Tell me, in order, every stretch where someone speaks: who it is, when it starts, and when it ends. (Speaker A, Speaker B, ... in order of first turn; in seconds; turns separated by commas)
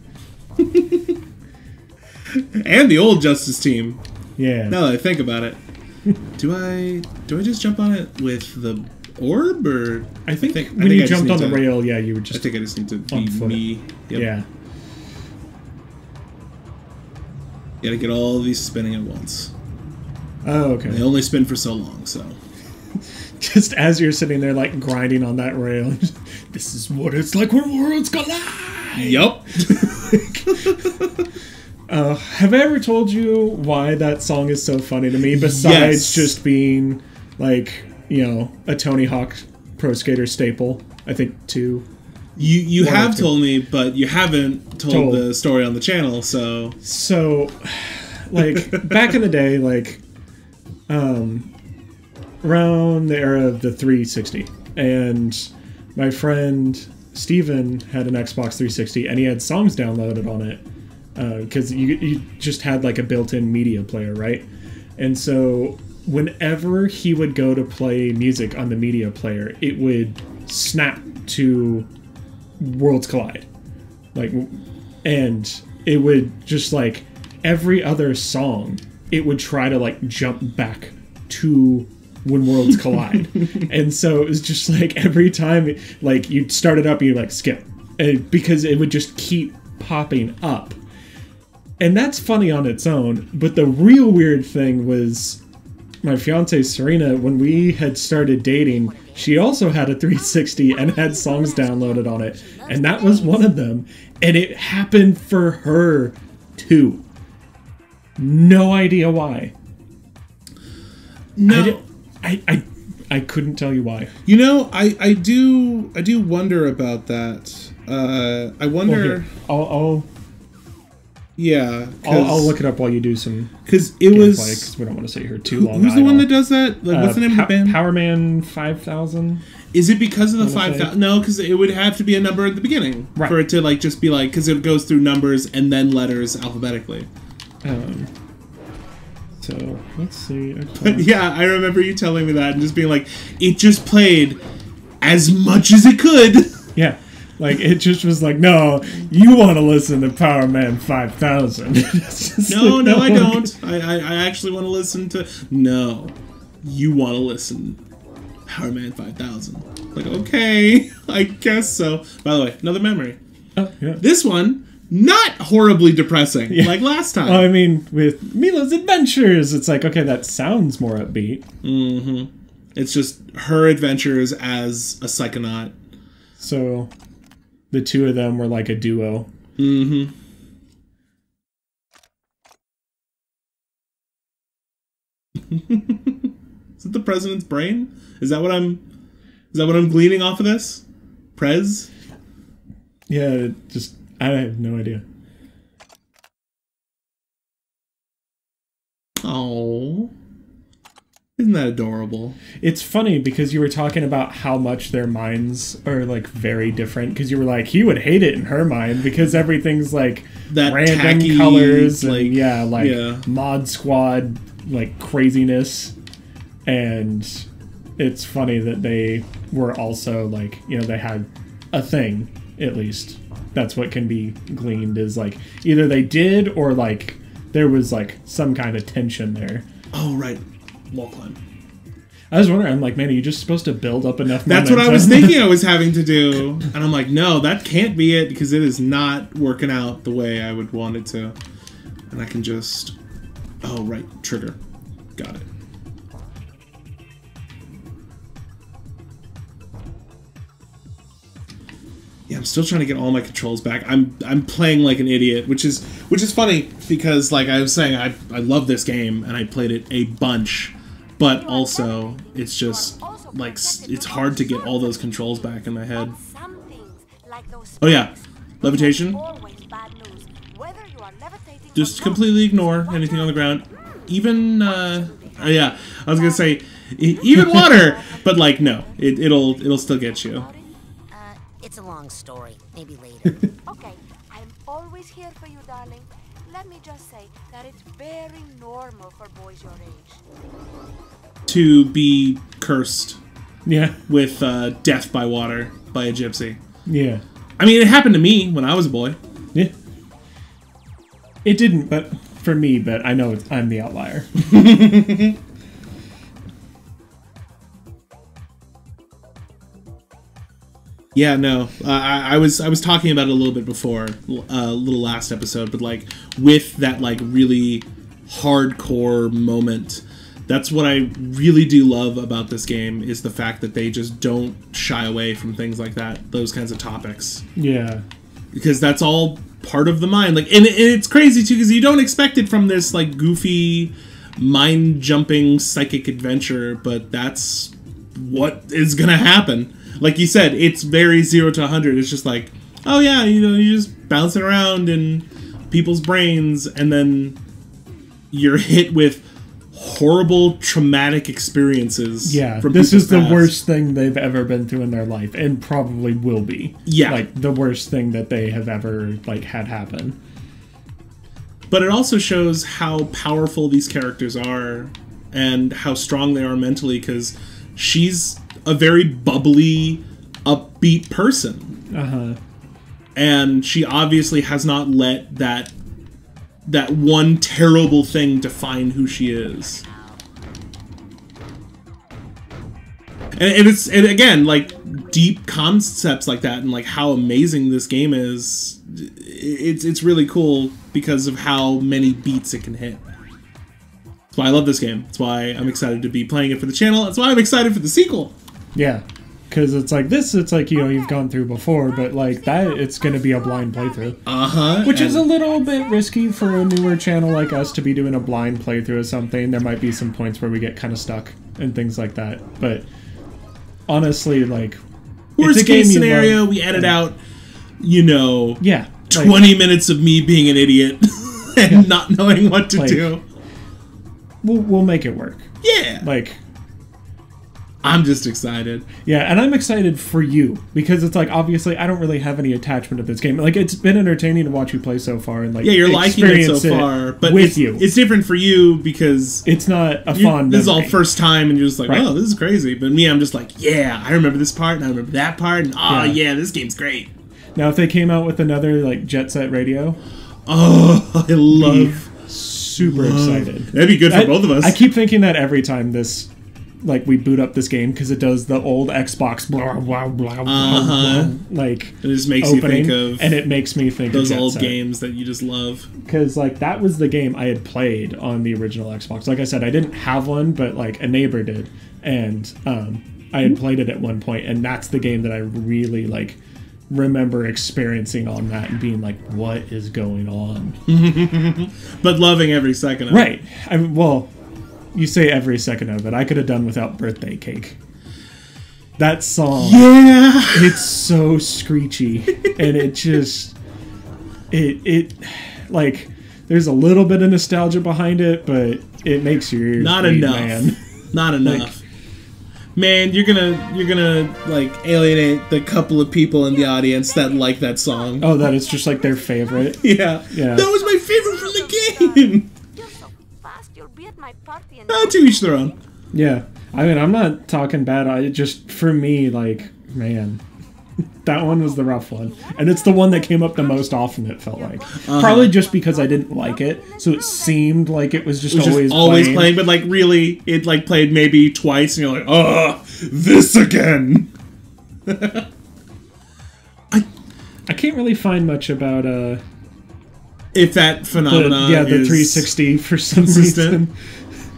Speaker A: 0.6-1.2, Speaker A: 2.3-4.0, Speaker B: 4.4-4.8, Speaker A: 4.7-5.6, Speaker A: 6.4-11.7, Speaker B: 10.3-12.5, Speaker A: 12.3-14.3, Speaker B: 13.1-14.5, Speaker A: 17.8-19.5, Speaker B: 20.4-21.1, Speaker A: 20.9-22.4, Speaker B: 23.4-30.8, Speaker A: 29.0-31.3, Speaker B: 31.9-41.9, Speaker A: 35.3-36.4, Speaker A: 42.4-46.8, Speaker B: 42.4-43.4, Speaker B: 44.9-45.3, Speaker B: 46.8-50.0, Speaker A: 48.4-49.0, Speaker B: 50.9-51.5, Speaker B: 52.4-60.6, Speaker B: 61.2-64.5, Speaker B: 65.0-71.9, Speaker B: 72.6-73.5, Speaker B: 74.1-90.8, Speaker B: 91.8-95.4, Speaker B: 96.0-107.0, Speaker C: 98.6-99.5, Speaker D: 100.3-103.0, Speaker C: 102.7-103.4, Speaker B: 108.2-109.5, Speaker A: 111.4-111.8, Speaker B: 111.5-114.2, Speaker A: 114.3-119.3, Speaker B: 118.9-120.1, Speaker A: 121.4-122.6, Speaker B: 122.0-123.5, Speaker A: 123.7-124.7, Speaker B: 124.1-126.3, Speaker A: 125.5-127.8, Speaker B: 126.9-129.4, Speaker A: 129.7-137.1, Speaker B: 130.4-130.9, Speaker B: 137.6-138.1, Speaker B: 139.4-141.1, Speaker A: 140.8-144.4, Speaker A: 145.0-146.6, Speaker B: 146.8-153.6, Speaker A: 152.5-157.8, Speaker A: 158.5-163.2, Speaker B: 163.6-164.0, Speaker A: 164.0-167.5, Speaker B: 166.5-171.4, Speaker A: 171.6-175.8, Speaker B: 176.4-176.9, Speaker B: 177.7-179.3, Speaker A: 179.6-180.1, Speaker A: 185.5-186.3, Speaker A: 186.8-188.8, Speaker A: 189.5-190.8, Speaker A: 191.3-191.9, Speaker B: 193.1-195.0, Speaker A: 199.2-200.1, Speaker A: 201.4-202.4, Speaker B: 202.6-215.9, Speaker A: 210.5-213.3, Speaker B: 216.7-229.7, Speaker A: 229.9-231.4, Speaker B: 232.3-235.4, Speaker A: 234.4-241.4, Speaker A: 242.1-243.0, Speaker A: 243.6-244.6, Speaker A: 245.2-245.5, Speaker A: 252.3-266.2, Speaker D: 261.2-280.7, Speaker A: 267.8-269.2, Speaker A: 271.8-280.5, Speaker C: 281.1-283.5, Speaker D: 283.6-290.2, Speaker A: 291.5-293.2, Speaker B: 293.7-294.0, Speaker A: 294.1-296.6, Speaker B: 296.9-297.2, Speaker A: 297.6-299.2, Speaker B: 301.4-304.4, Speaker A: 304.4-305.4, Speaker A: 311.1-327.4, Speaker B: 327.6-328.1, Speaker A: 328.5-347.4, Speaker A: 348.3-353.6, Speaker B: 352.2-360.2, Speaker A: 356.9-357.2, Speaker A: 361.7-371.8, Speaker B: 371.9-372.4, Speaker A: 373.2-375.7, Speaker A: 376.7-379.8, Speaker A: 383.3-393.0, Speaker A: 394.3-398.4, Speaker B: 398.8-404.2, Speaker D: 402.9-405.1, Speaker A: 404.3-405.3, Speaker B: 404.8-412.9, Speaker B: 413.9-414.8, Speaker A: 415.4-417.2, Speaker B: 415.4-416.9, Speaker A: 417.8-423.2, Speaker B: 418.6-419.6, Speaker B: 422.8-423.1, Speaker B: 424.4-426.4, Speaker A: 425.6-426.1, Speaker A: 427.8-428.9, Speaker B: 429.0-437.9, Speaker A: 435.6-439.5, Speaker B: 439.4-441.0, Speaker A: 440.1-447.1, Speaker B: 445.9-446.2, Speaker B: 447.6-450.0, Speaker A: 450.5-452.1, Speaker B: 451.5-456.3, Speaker A: 452.8-454.9, Speaker B: 456.8-464.8, Speaker A: 460.5-461.4, Speaker A: 462.0-463.4, Speaker A: 464.1-465.9, Speaker B: 466.0-476.4, Speaker B: 476.9-480.8, Speaker A: 480.9-483.3, Speaker B: 483.1-484.3, Speaker B: 484.9-487.8, Speaker B: 489.0-489.9, Speaker A: 489.6-490.8, Speaker B: 490.5-493.6, Speaker A: 492.3-492.7, Speaker B: 494.5-500.8, Speaker A: 499.8-501.8, Speaker B: 501.4-501.7, Speaker A: 502.8-508.5, Speaker D: 506.5-515.8, Speaker B: 508.2-510.7, Speaker A: 509.8-512.5, Speaker A: 514.9-515.7, Speaker B: 516.1-520.4, Speaker B: 521.2-529.6, Speaker D: 521.3-530.1, Speaker A: 524.9-525.6, Speaker A: 528.5-534.3, Speaker A: 535.1-535.5, Speaker B: 537.7-539.4, Speaker A: 540.5-542.5, Speaker B: 541.3-543.9, Speaker A: 543.2-543.8